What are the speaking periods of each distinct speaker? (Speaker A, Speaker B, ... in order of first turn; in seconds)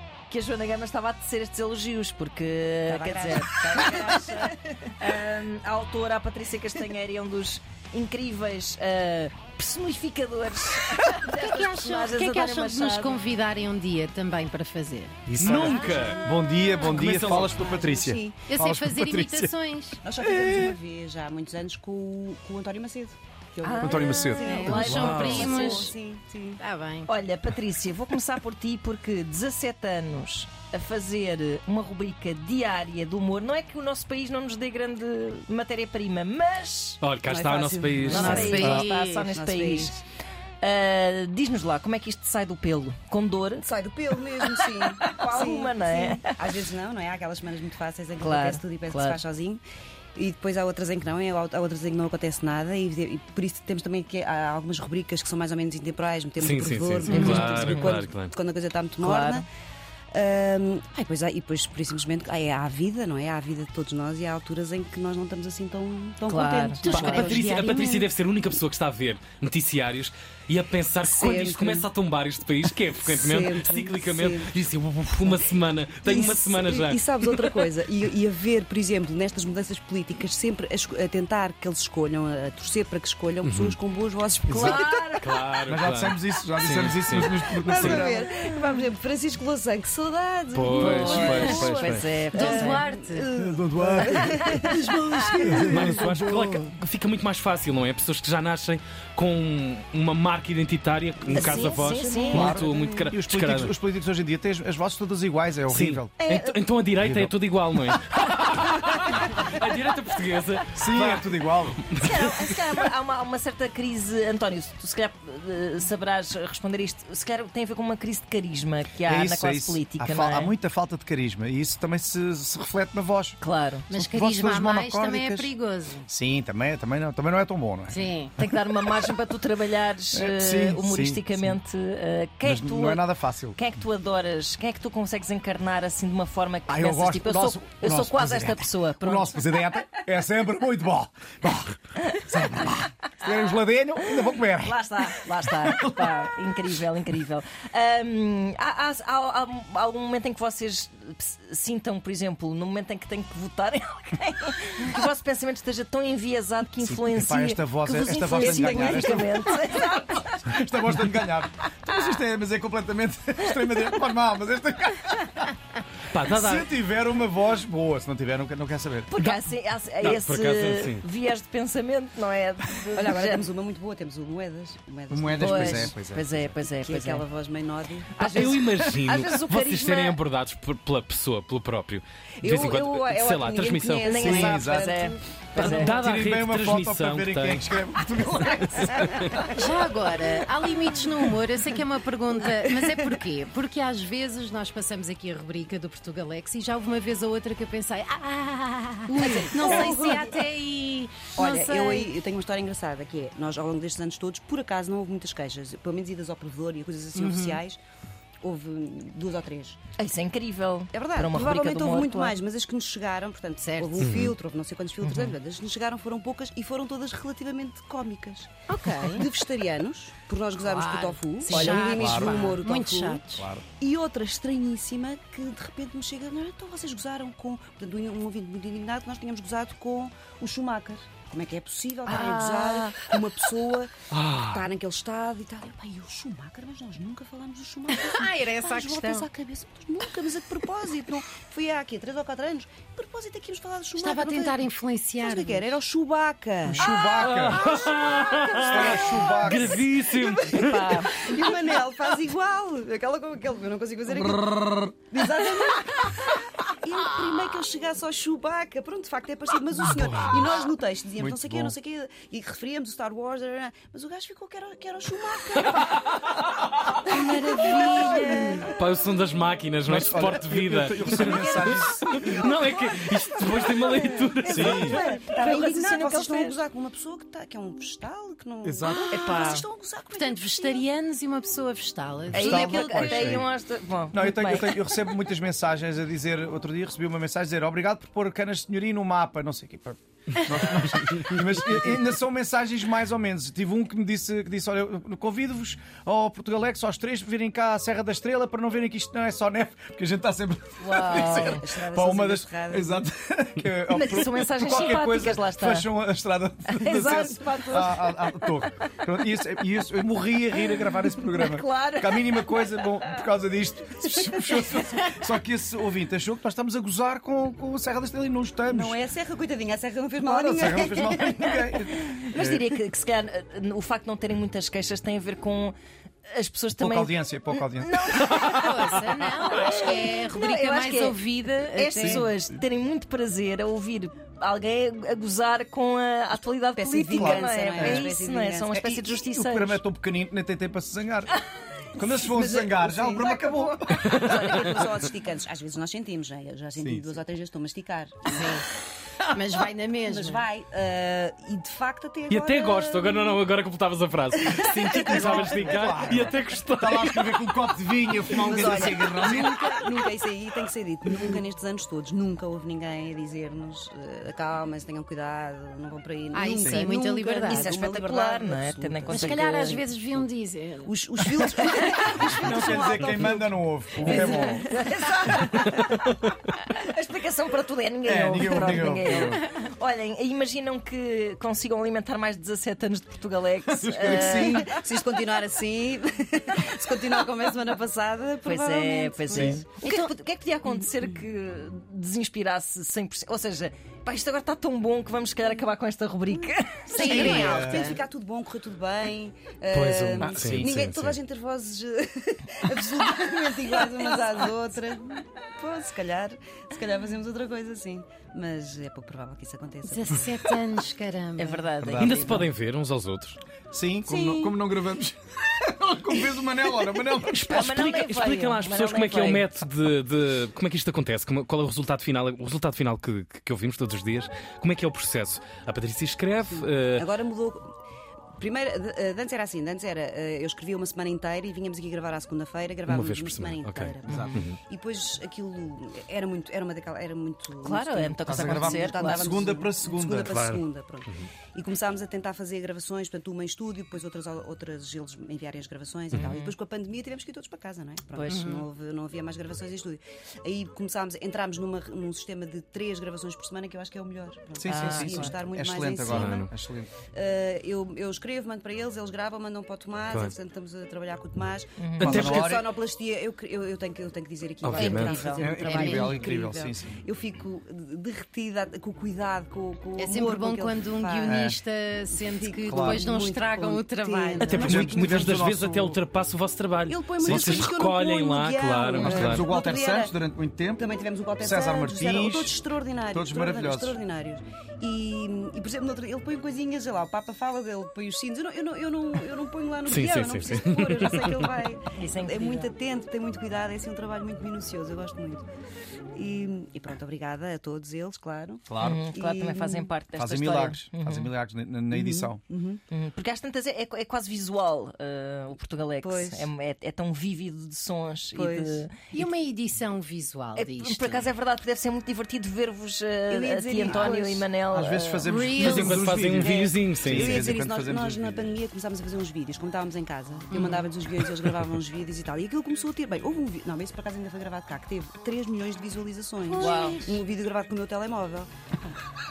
Speaker A: 0.3-13.2, 23.6-25.9, 27.1-37.0, 38.1-40.0, 40.6-43.7, 45.1-46.4, 48.2-49.2, 57.1-58.0, 59.0-59.4, 66.3-66.9, 84.6-85.2, 90.8-92.8, 101.3-102.5, 106.2-106.6, 112.0-120.5, 123.4-123.9, 128.4-139.4, 144.6-160.5, 169.1-173.4, 175.4-177.2, 178.2-180.2, 184.0-185.9, 210.0-212.4, 215.0-215.4, 250.6-251.2, 267.1-268.7, 271.1-271.4, 274.7-276.6, 279.1-279.6, 282.3-285.0, 300.8-301.6, 303.9-305.9, 306.7-308.5, 311.3-312.9, 314.2-315.1, 322.0-325.8, 326.3-339.8, 367.5-369.9, 374.1-376.0, 376.5-384.7, 388.4-397.4, 411.4-412.5, 417.5-419.5, 434.1-434.4, 437.6-439.4, 446.1-446.5, 448.1-448.6, 454.7-455.3, 461.8-462.1, 491.9-492.7, 498.8-501.3, 502.9-509.2, 510.6-515.3, 526.6-527.1
Speaker B: 2.9-4.5, 15.4-16.5, 17.5-18.4, 20.0-26.6, 37.2-40.0, 43.6-49.6, 50.1-59.5, 60.1-68.0, 71.0-71.9, 73.0-74.5, 76.0-85.0, 87.4-95.9, 101.3-103.0, 172.9-176.0, 176.5-178.9, 182.4-185.2, 192.7-193.2, 199.1-200.4, 201.3-207.8, 208.4-209.8, 210.9-244.6, 245.2-266.3, 267.1-268.8, 272.2-272.8, 273.6-280.9, 301.0-303.0, 318.7-321.4, 331.9-332.3, 336.8-338.8, 342.2-348.5, 350.1-353.4, 354.8-355.4, 358.3-369.4, 370.9-373.5, 374.0-375.9, 384.4-390.1, 390.7-391.0, 396.9-410.5, 414.1-414.6, 426.5-427.7, 428.4-456.5, 457.1-471.5, 472.1-475.4, 476.9-480.1, 480.8-495.4, 496.1-499.9, 501.9-502.8, 506.0-506.5, 508.4-508.9, 513.3-514.5, 515.6-528.5
Speaker C: 11.3-15.2, 18.5-20.0, 24.5-25.9, 26.6-27.1, 38.4-38.8, 66.9-68.0, 92.3-93.3, 123.9-126.1, 127.9-128.3, 189.5-202.1, 207.2-207.6, 213.6-214.1, 218.7-219.3, 220.6-223.5, 232.1-233.1, 237.9-239.3, 244.0-245.8, 280.1-283.1, 328.5-332.1, 348.3-348.7, 349.3-350.4, 366.3-367.8, 369.1-370.9, 396.9-398.0, 409.9-411.7, 448.3-448.6, 465.3-466.3, 470.0-474.8, 509.1-511.3, 515.3-516.1, 520.5-520.9, 526.5-527.2
Speaker D: 15.3-19.5, 20.2-20.8, 23.8-25.4, 38.2-38.8, 84.5-84.9, 85.7-88.2, 93.3-96.8, 102.3-106.2, 107.0-107.3, 110.7-111.8, 119.0-123.4, 123.9-125.5, 126.1-128.1, 130.1-131.6, 132.4-133.6, 136.7-146.3, 156.8-165.6, 166.3-169.1, 175.1-176.3, 184.1-185.0, 185.6-189.7, 221.5-222.6, 223.4-223.7, 246.6-247.7, 248.6-249.8, 261.2-261.7, 269.9-272.4, 274.5-275.0, 278.6-279.6, 282.3-283.5, 284.1-319.0, 320.2-322.7, 326.8-328.5, 332.0-332.3, 337.1-338.1, 338.7-341.4, 341.9-344.8, 346.8-347.1, 355.0-359.8, 366.6-366.9, 372.4-374.6, 378.1-379.4, 383.7-384.7, 389.3-389.6, 397.2-398.0, 400.2-400.8, 411.8-412.3, 413.7-417.6, 434.1-434.4, 438.3-440.4, 454.6-456.9, 462.0-462.7, 464.8-467.0, 471.3-471.6, 472.7-473.1, 474.5-476.0, 477.2-477.8, 479.0-480.9, 481.4-482.6, 483.1-484.0, 498.7-499.1, 500.2-502.4, 514.7-518.5
Speaker E: 15.4-16.2, 16.9-17.6, 24.8-25.5, 37.0-38.8, 56.4-58.3, 66.8-77.7, 83.4-83.8, 85.2-88.1, 90.5-92.2, 95.7-103.7, 105.7-112.6, 166.1-166.7, 170.0-171.1, 178.2-184.2, 185.6-187.8, 188.4-189.4, 214.0-214.3, 234.1-234.6, 247.2-250.9, 259.8-260.5, 268.8-274.8, 344.0-344.6, 352.3-357.4, 399.7-401.2, 412.0-413.4, 417.3-427.1, 432.9-434.6, 440.3-441.3, 456.1-456.5, 462.0-462.5, 464.6-465.3, 474.4-479.5, 489.9-491.5, 515.7-517.3